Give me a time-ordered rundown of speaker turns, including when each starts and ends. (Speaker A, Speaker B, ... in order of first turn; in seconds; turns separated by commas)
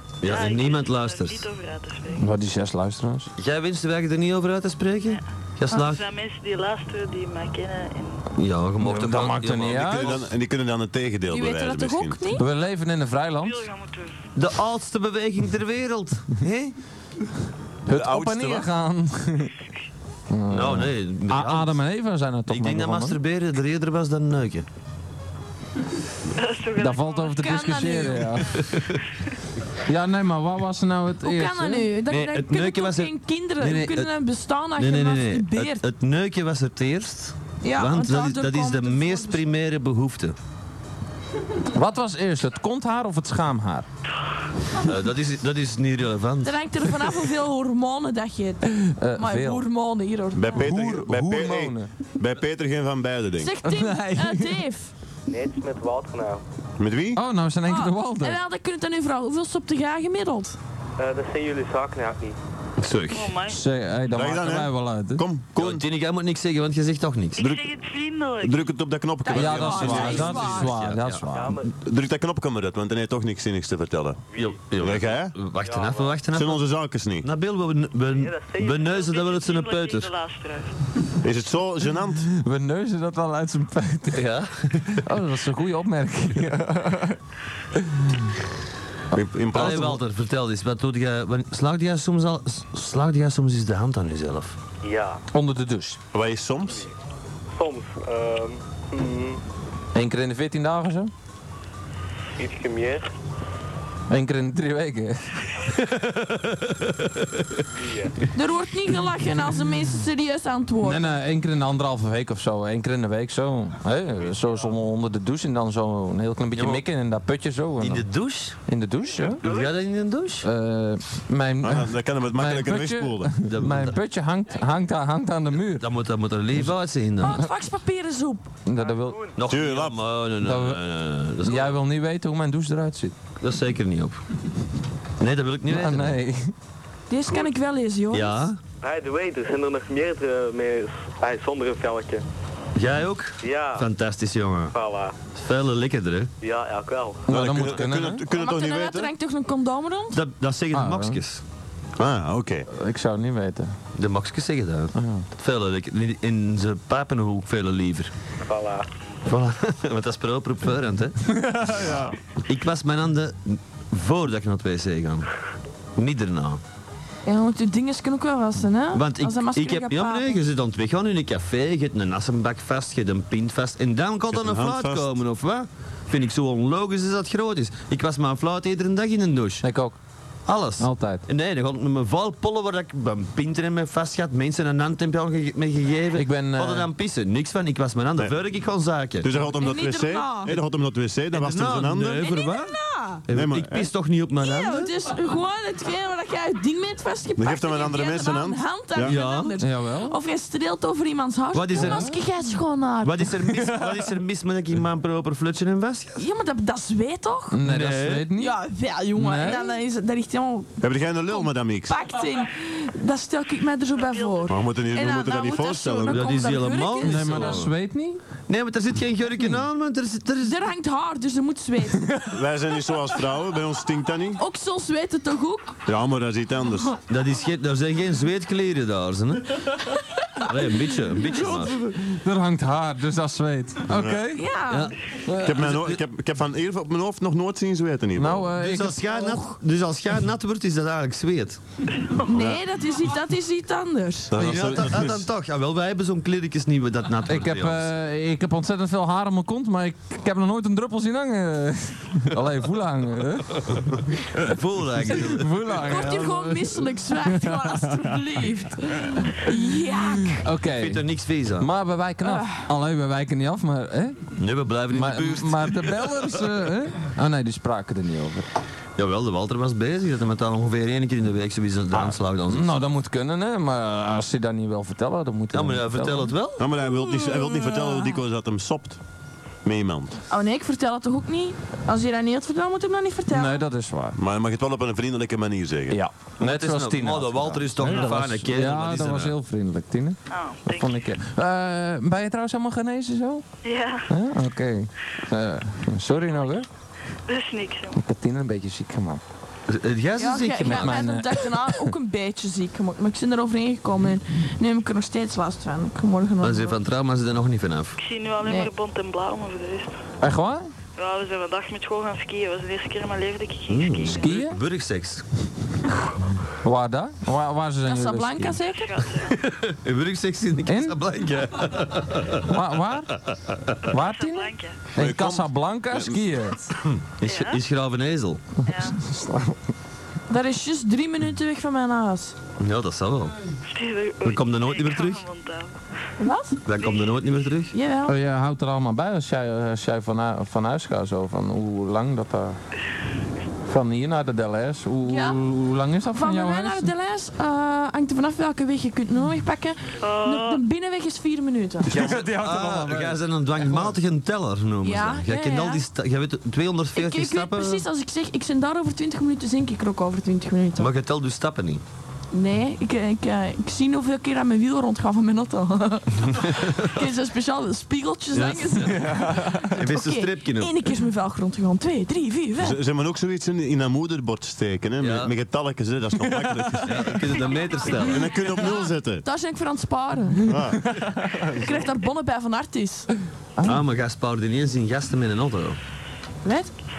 Speaker A: 0.2-1.4, Speaker B: 0.2-2.2, Speaker C: 2.1-3.3, Speaker A: 3.4-6.0, Speaker B: 5.8-8.2, Speaker A: 8.3-10.3, Speaker C: 8.8-10.2, Speaker D: 9.7-12.2, Speaker E: 11.3-12.4, Speaker C: 12.3-13.7, Speaker B: 13.4-14.2, Speaker A: 14.3-16.8, Speaker C: 17.9-19.5, Speaker D: 17.9-18.7, Speaker C: 20.3-23.2, Speaker A: 20.5-21.8, Speaker A: 22.5-24.6, Speaker B: 26.4-28.1, Speaker C: 26.8-28.6, Speaker E: 27.4-28.4, Speaker A: 28.6-29.0, Speaker C: 29.9-31.9, Speaker E: 31.2-35.8, Speaker A: 32.0-34.1, Speaker A: 34.8-40.4, Speaker E: 37.6-39.4, Speaker C: 41.7-43.9, Speaker A: 44.8-46.5, Speaker E: 46.4-50.6, Speaker C: 48.8-49.6, Speaker D: 50.3-53.5, Speaker C: 50.5-51.9, Speaker E: 53.4-54.9, Speaker C: 53.6-54.6, Speaker F: 55.3-56.4, Speaker D: 56.8-57.2, Speaker C: 57.1-58.4, Speaker E: 57.6-60.6, Speaker F: 61.0-62.4, Speaker A: 62.8-63.4, Speaker B: 63.1-63.6, Speaker C: 63.5-65.2, Speaker D: 64.1-65.8, Speaker A: 65.5-67.5, Speaker B: 67.4-68.7, Speaker D: 68.4-70.5, Speaker E: 69.2-70.7, Speaker C: 69.3-71.6, Speaker A: 69.6-71.2, Speaker F: 71.3-71.7, Speaker D: 71.8-74.2, Speaker A: 74.3-76.6, Speaker D: 74.8-75.4, Speaker F: 75.6-76.1, Speaker D: 76.3-77.3, Speaker A: 77.2-80.1, Speaker F: 78.1-79.0, Speaker B: 78.9-80.7, Speaker D: 81.2-82.3, Speaker C: 82.3-84.2, Speaker A: 84.1-85.0, Speaker C: 84.8-87.2, Speaker C: 87.9-88.2, Speaker D: 89.1-90.0, Speaker A: 89.5-94.6, Speaker C: 89.5-90.0, Speaker F: 94.8-95.2, Speaker C: 95.3-96.0, Speaker D: 96.1-96.8, Speaker F: 97.5-99.4, Speaker C: 99.9-101.1, Speaker F: 102.4-103.1, Speaker C: 104.1-105.4, Speaker A: 105.8-107.4, Speaker F: 107.8-108.1, Speaker E: 108.3-111.0, Speaker C: 110.8-119.4, Speaker F: 114.4-114.7, Speaker A: 116.5-116.8, Speaker A: 117.8-118.6, Speaker F: 119.1-119.8, Speaker A: 119.4-120.5, Speaker C: 120.4-125.9, Speaker D: 121.6-123.4, Speaker A: 123.4-124.0, Speaker A: 125.8-127.4, Speaker E: 127.2-128.5, Speaker C: 128.7-129.2, Speaker F: 128.8-129.3, Speaker A: 129.3-131.8, Speaker D: 129.4-130.1, Speaker C: 130.4-130.8, Speaker C: 131.4-133.1, Speaker A: 133.4-134.2, Speaker A: 135.2-136.2, Speaker C: 135.7-136.5, Speaker E: 137.1-138.4, Speaker A: 138.1-138.6, Speaker F: 138.8-142.2, Speaker A: 142.8-144.7, Speaker F: 143.4-143.9, Speaker F: 144.7-145.2, Speaker A: 145.3-146.3, Speaker F: 146.4-147.2, Speaker D: 147.3-149.1, Speaker C: 147.3-148.2, Speaker E: 148.2-150.2, Speaker A: 150.1-151.4, Speaker C: 150.7-151.2, Speaker D: 152.0-152.7, Speaker C: 152.7-153.7, Speaker A: 153.9-158.1, Speaker C: 154.9-155.2, Speaker F: 158.4-158.9, Speaker A: 159.2-165.3, Speaker C: 161.2-162.1, Speaker A: 165.9-166.6, Speaker E: 167.2-170.4, Speaker A: 168.9-179.6, Speaker D: 174.3-175.1, Speaker C: 179.6-180.0, Speaker A: 180.4-189.3, Speaker C: 180.8-181.2, Speaker C: 186.1-186.9, Speaker D: 189.2-192.3, Speaker E: 189.5-190.6, Speaker A: 191.3-192.8, Speaker E: 192.2-193.2, Speaker A: 193.3-194.9, Speaker D: 193.3-193.9, Speaker E: 194.4-203.3, Speaker D: 197.4-199.2, Speaker A: 199.0-199.6, Speaker C: 199.6-200.2, Speaker A: 201.5-202.2, Speaker C: 201.7-202.2, Speaker A: 203.0-206.2, Speaker C: 203.5-204.0, Speaker E: 206.2-207.6, Speaker C: 207.5-208.6, Speaker A: 207.7-208.3, Speaker E: 208.3-217.7, Speaker C: 209.1-209.7, Speaker D: 210.8-212.0, Speaker B: 213.9-214.5, Speaker D: 214.5-216.3, Speaker A: 216.1-217.7, Speaker C: 217.0-218.2, Speaker A: 218.5-220.6, Speaker E: 220.4-222.2, Speaker D: 222.3-224.4, Speaker E: 224.4-225.8, Speaker D: 225.8-226.9, Speaker A: 227.1-229.6, Speaker A: 230.5-231.9, Speaker C: 231.3-234.5, Speaker D: 233.9-234.3, Speaker E: 234.3-234.9, Speaker A: 234.7-236.0, Speaker C: 235.2-235.5, Speaker D: 235.4-238.5, Speaker C: 238.2-239.5, Speaker A: 238.5-241.6, Speaker E: 242.1-244.4, Speaker D: 242.3-242.6, Speaker D: 244.3-245.3, Speaker A: 244.3-247.9, Speaker C: 247.2-253.9, Speaker A: 254.4-255.7, Speaker C: 255.1-258.1, Speaker E: 255.8-260.4, Speaker C: 259.9-261.0, Speaker A: 260.7-261.7, Speaker C: 261.6-264.3, Speaker E: 262.2-262.7, Speaker A: 264.4-266.2, Speaker C: 264.9-268.5, Speaker A: 269.0-272.7, Speaker C: 271.9-276.3, Speaker A: 275.5-276.6, Speaker D: 276.6-279.0, Speaker E: 276.8-278.2, Speaker D: 279.6-280.1, Speaker E: 280.3-283.6, Speaker C: 283.3-284.2, Speaker D: 284.2-286.0, Speaker C: 285.9-293.4, Speaker A: 286.4-289.3, Speaker B: 290.3-291.0, Speaker B: 293.6-294.1, Speaker C: 294.1-296.7, Speaker B: 297.3-297.9, Speaker C: 297.9-299.2, Speaker A: 299.7-301.1, Speaker E: 300.1-306.8, Speaker C: 300.6-301.5, Speaker A: 306.4-308.0, Speaker B: 308.0-309.9, Speaker E: 308.4-308.7, Speaker C: 310.2-310.7, Speaker B: 311.0-314.2, Speaker A: 313.7-315.2, Speaker C: 314.1-314.6, Speaker C: 316.6-318.6, Speaker E: 317.8-319.0, Speaker B: 318.7-319.4, Speaker A: 319.3-322.6, Speaker C: 320.7-321.0, Speaker C: 322.4-323.1, Speaker A: 323.3-323.6, Speaker B: 323.9-324.8, Speaker C: 323.9-326.7, Speaker D: 325.0-326.2, Speaker A: 326.8-328.4, Speaker B: 327.2-327.6, Speaker B: 328.6-329.0, Speaker C: 328.6-329.6, Speaker E: 330.3-332.4, Speaker A: 332.6-333.3, Speaker B: 333.7-335.7, Speaker A: 334.2-335.2, Speaker E: 336.2-336.6, Speaker A: 336.6-337.7, Speaker B: 336.8-337.3, Speaker E: 337.7-338.1, Speaker C: 338.0-342.6, Speaker C: 343.7-346.9, Speaker E: 345.0-345.4, Speaker E: 346.1-351.9, Speaker B: 350.0-350.6, Speaker C: 351.9-353.9, Speaker A: 351.9-357.9, Speaker E: 354.8-355.8, Speaker E: 356.9-360.9, Speaker A: 360.8-361.8, Speaker E: 362.3-372.8, Speaker A: 368.3-369.1, Speaker C: 368.8-369.8, Speaker A: 369.8-370.9, Speaker D: 372.6-377.2, Speaker A: 375.0-375.3, Speaker C: 376.2-377.1, Speaker A: 376.9-378.3, Speaker E: 377.4-380.7, Speaker D: 378.0-379.2, Speaker D: 380.5-380.9, Speaker C: 380.8-381.6, Speaker E: 381.3-383.1, Speaker C: 383.6-383.8, Speaker A: 383.6-385.8, Speaker E: 386.4-386.7